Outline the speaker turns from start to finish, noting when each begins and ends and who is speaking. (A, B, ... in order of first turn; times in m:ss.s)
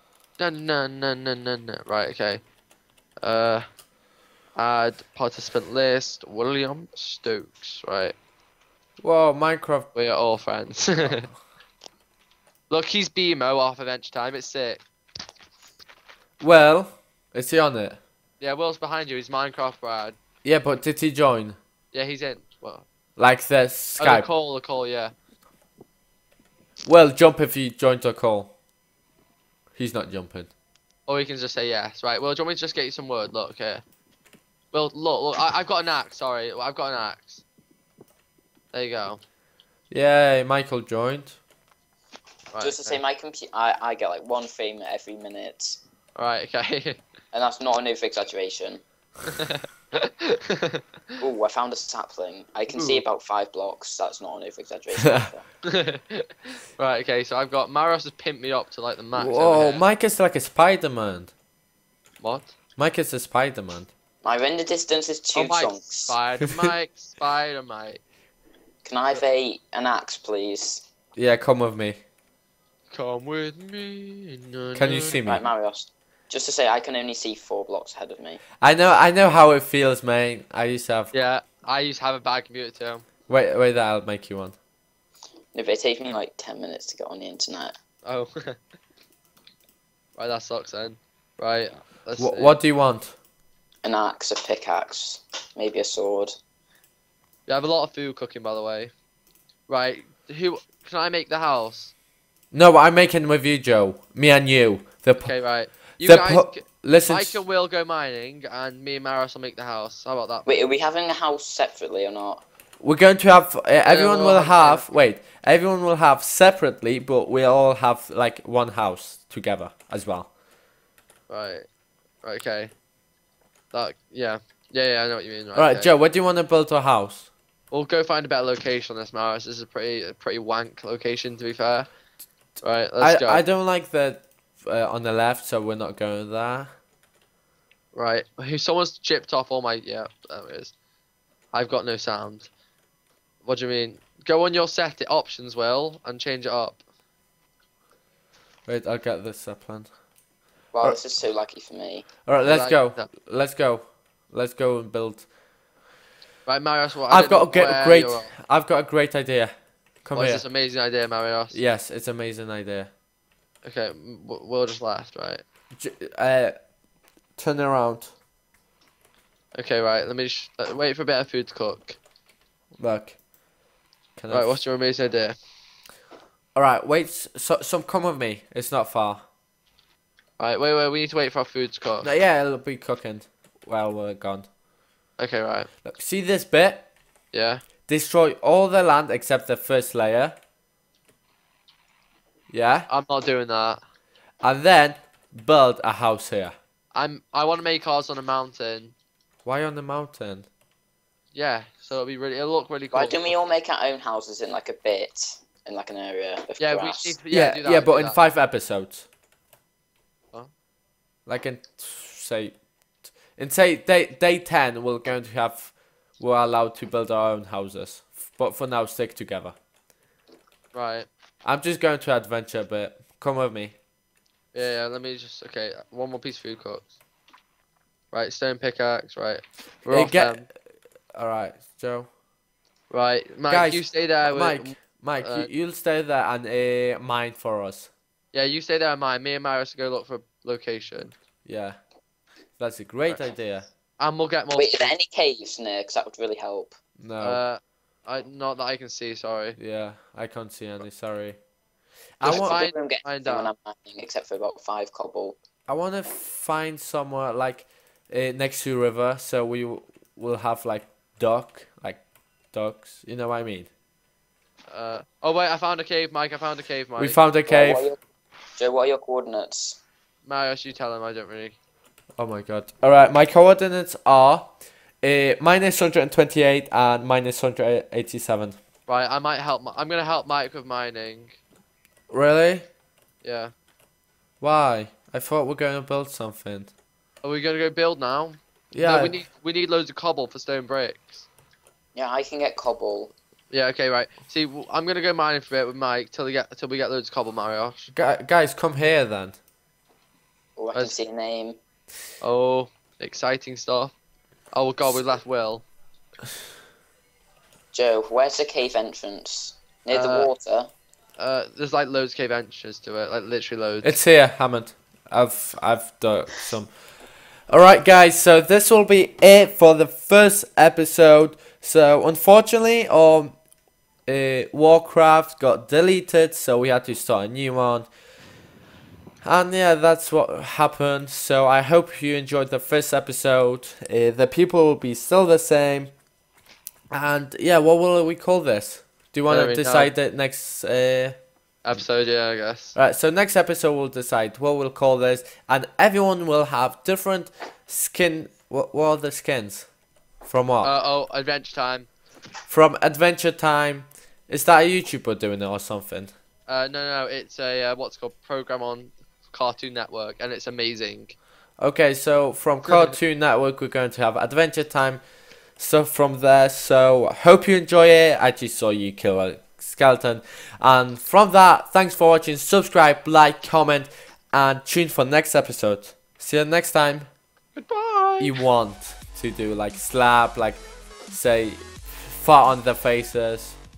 0:00.4-0:02.4 A
0:03.2-0:03.6 A
0:04.5-0:08.2 A
0:09.0-0:09.9 B
0:09.9-0:11.3 A
0:12.7-0:14.8 A
0:16.4-0:18.0 B
0:18.4-0:20.2 A
0:20.4-0:21.6 B
0:21.9-0:22.8 A
0:23.2-0:24.3 B
0:24.0-0:25.1 A
0:26.8-0:28.5 B
0:29.7-0:30.5 B
0:31.1-0:33.8 A
0:34.7-0:37.4 A
0:38.7-0:39.2 A
0:39.9-0:41.4 B
0:42.5-0:43.0 A
0:42.6-0:45.8 C
0:46.1-0:47.0 A
0:47.3-0:48.8 C
0:50.2-0:50.8 A
0:51.2-0:55.4 C
0:52.7-0:53.0 A
0:55.7-0:59.8 A
0:59.1-1:01.3 B
1:02.2-1:02.5 A
1:02.8-1:03.9 B
1:04.2-1:06.2 C
1:05.3-1:08.0 A
1:08.8-1:10.8 C
1:11.2-1:12.0 B
1:12.9-1:15.2 A
1:14.7-1:15.5 B
1:15.2-1:18.4 C
1:18.6-1:21.1 B
1:21.1-1:23.0 A
1:23.3-1:24.5 B
1:25.5-1:27.7 C
1:28.0-1:28.6 A
1:30.2-1:32.6 A
1:32.2-1:33.1 B
1:33.8-1:36.3 C
1:37.5-1:38.9 A
1:39.7-1:41.9 A
1:42.5-1:45.4 B
1:45.2-1:50.6 A
1:46.0-1:47.4 B
1:50.4-1:52.4 C
1:52.8-2:00.3 B
1:53.8-1:54.8 A
2:01.3-2:01.7 A
2:02.2-2:02.7 A
2:03.7-2:05.9 A
2:05.5-2:07.3 B
2:07.7-2:11.9 A
2:12.6-2:13.4 A
2:13.0-2:16.7 B
2:17.9-2:20.7 A
2:21.5-2:22.5 A
2:23.4-2:26.8 A
2:28.7-2:29.9 B
2:30.7-2:32.1 C
2:32.2-2:35.3 B
2:32.4-2:33.1 A
2:36.4-2:38.3 A
2:37.1-2:40.5 B
2:40.1-2:41.6 A
2:41.5-2:42.9 B
2:43.6-2:45.4 A
2:45.8-2:46.5 B
2:47.4-2:48.1 B
2:49.5-2:52.0 A
2:52.8-2:53.2 B
2:54.2-2:54.6 B
2:54.3-2:55.4 A
2:56.5-2:59.2 B
3:00.4-3:02.1 A
3:02.0-3:04.5 B
3:05.2-3:05.7 A
3:05.8-3:06.9 B
3:07.3-3:07.6 A
3:07.8-3:10.4 B
3:12.5-3:12.9 B
3:12.9-3:13.8 A
3:14.4-3:16.5 B
3:16.9-3:18.9 A
3:19.4-3:20.5 B
3:21.3-3:23.3 A
3:22.9-3:27.2 C
3:26.6-3:28.2 A
3:27.3-3:29.1 B
3:31.2-3:32.6 B
3:33.1-3:39.6 B
3:40.7-3:41.1 A
3:41.4-3:43.8 B
3:44.5-3:46.9 A
3:48.1-3:50.5 A
3:49.9-3:50.5 B
3:51.1-3:52.1 B
3:52.9-3:55.5 A
3:53.5-3:57.9 B
3:58.3-4:01.1 A
4:01.4-4:01.8 B
4:02.6-4:03.7 B
4:04.0-4:04.9 A
4:04.6-4:06.7 C
4:07.0-4:07.4 B
4:07.2-4:09.6 A
4:09.6-4:11.4 B
4:12.2-4:12.6 B
4:12.2-4:13.5 A
4:12.2-4:15.4 C
4:15.7-4:23.7 B
4:24.7-4:27.2 A
4:27.0-4:27.9 B
4:27.5-4:28.0 C
4:28.6-4:29.8 C
4:30.2-4:31.6 A
4:32.2-4:38.6 B
4:38.9-4:41.4 A
4:42.1-4:42.6 B
4:43.2-4:43.5 A
4:44.4-4:46.7 B
4:47.2-4:51.3 A
4:48.7-4:49.2 B
4:51.9-4:53.1 C
4:53.5-4:57.9 A
4:57.9-4:59.4 B
5:00.6-5:01.6 C
5:02.2-5:03.9 A
5:04.5-5:05.6 A
5:07.7-5:10.7 C
5:09.9-5:10.3 A
5:11.2-5:14.0 A
5:13.8-5:16.8 B
5:17.5-5:23.4 B
5:24.0-5:27.9 B
5:29.2-5:35.9 B
5:36.9-5:41.2 B
5:39.3-5:39.9 A
5:41.6-5:42.7 A
5:42.7-5:49.7 B
5:50.2-5:50.7 B
5:50.6-5:51.9 A
5:52.5-5:56.1 B
5:56.5-6:01.1 A
6:01.6-6:05.0 B
6:05.6-6:17.1 B
6:17.6-6:18.4 A
6:18.2-6:23.6 B